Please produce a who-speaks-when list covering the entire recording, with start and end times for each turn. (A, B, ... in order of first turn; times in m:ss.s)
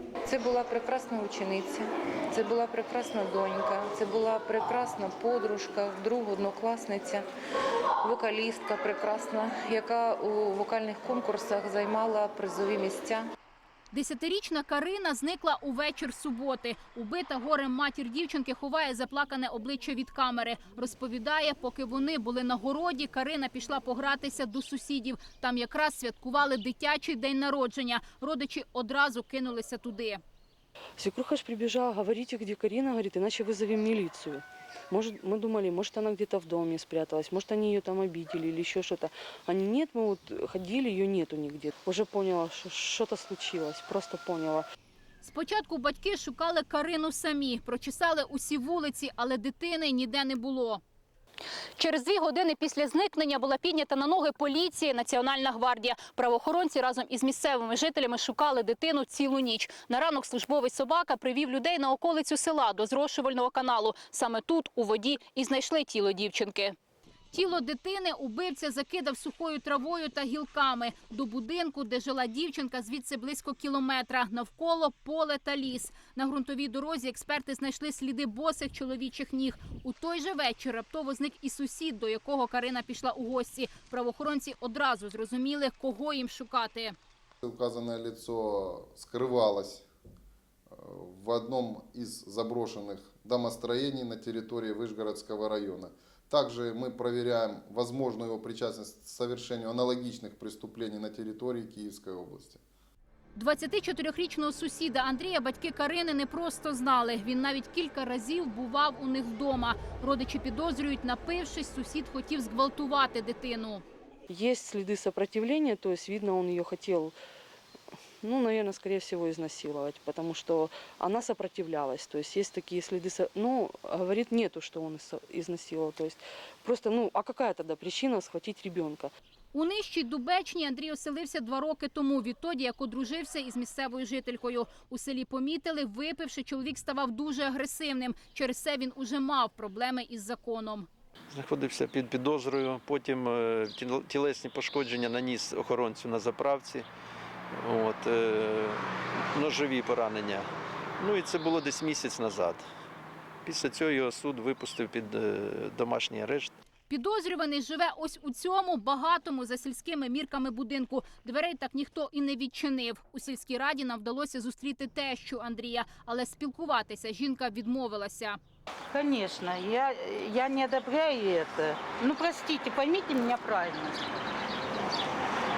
0:00.3-0:07.2 A
0:08.0-0:13.3 A
0:13.9-0:30.2 B
0:31.0-0:44.7 C
0:45.2-0:50.8 B
0:51.8-1:06.8 B
1:07.3-1:27.0 B
1:27.4-1:29.9 D
1:30.7-1:42.6 D
1:43.3-1:53.8 B
1:54.3-1:57.2 C
1:58.2-2:09.1 C
2:09.5-2:20.9 B
2:21.3-2:26.8 E
2:27.6-2:28.8 E
2:29.3-2:30.5 E
2:31.0-2:32.6 E
2:33.4-2:36.5 E
2:36.9-2:48.4 B
2:48.9-2:54.0 F